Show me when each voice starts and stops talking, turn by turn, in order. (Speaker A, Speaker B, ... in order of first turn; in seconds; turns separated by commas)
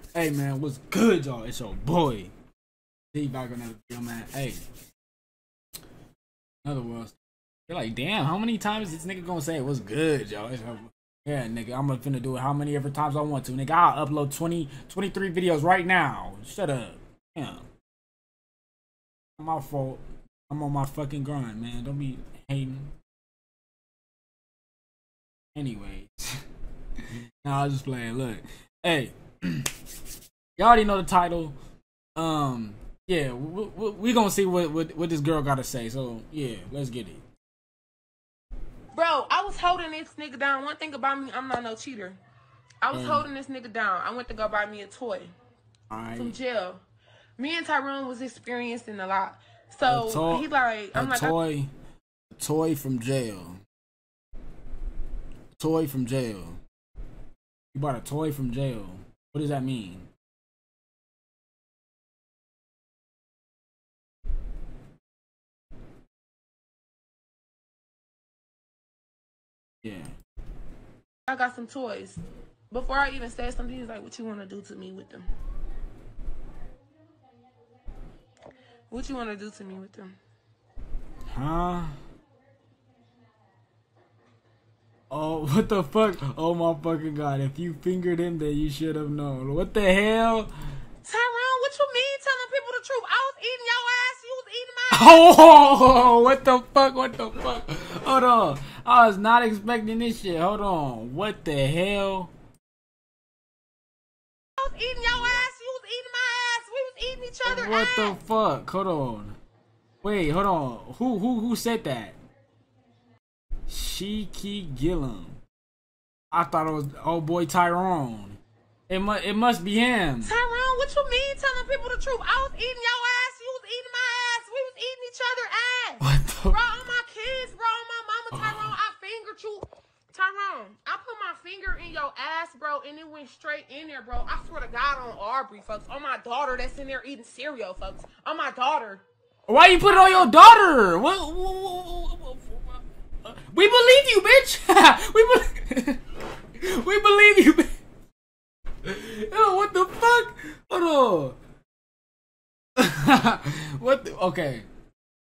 Speaker A: 0.1-2.3, Speaker A: 3.1-4.6, Speaker A: 6.6-7.1, Speaker A: 7.7-17.6, Speaker A: 19.4-22.9, Speaker A: 25.5-26.4, Speaker A: 27.0-29.7, Speaker A: 30.6-31.6, Speaker A: 32.1-37.2, Speaker B: 38.9-42.2, Speaker B: 42.8-45.3, Speaker A: 42.9-43.2, Speaker A: 45.9-46.4, Speaker B: 46.1-46.8, Speaker B: 47.4-51.3, Speaker A: 49.8-51.7, Speaker A: 52.3-53.6, Speaker A: 55.5-56.6, Speaker A: 57.7-60.1, Speaker A: 69.8-70.1, Speaker B: 71.2-75.3, Speaker B: 78.9-80.2, Speaker A: 81.3-82.0, Speaker A: 85.1-90.5, Speaker B: 91.0-95.5, Speaker A: 94.9-102.3, Speaker B: 104.6-108.2, Speaker A: 107.5-109.4, Speaker A: 110.0-112.2, Speaker A: 113.7-115.4, Speaker A: 116.3-120.3, Speaker B: 120.2-139.0, Speaker A: 126.0-126.6, Speaker A: 128.3-128.7, Speaker A: 139.5-146.0, Speaker B: 139.8-140.5, Speaker A: 146.6-147.8, Speaker A: 148.8-151.4, Speaker A: 152.8-154.7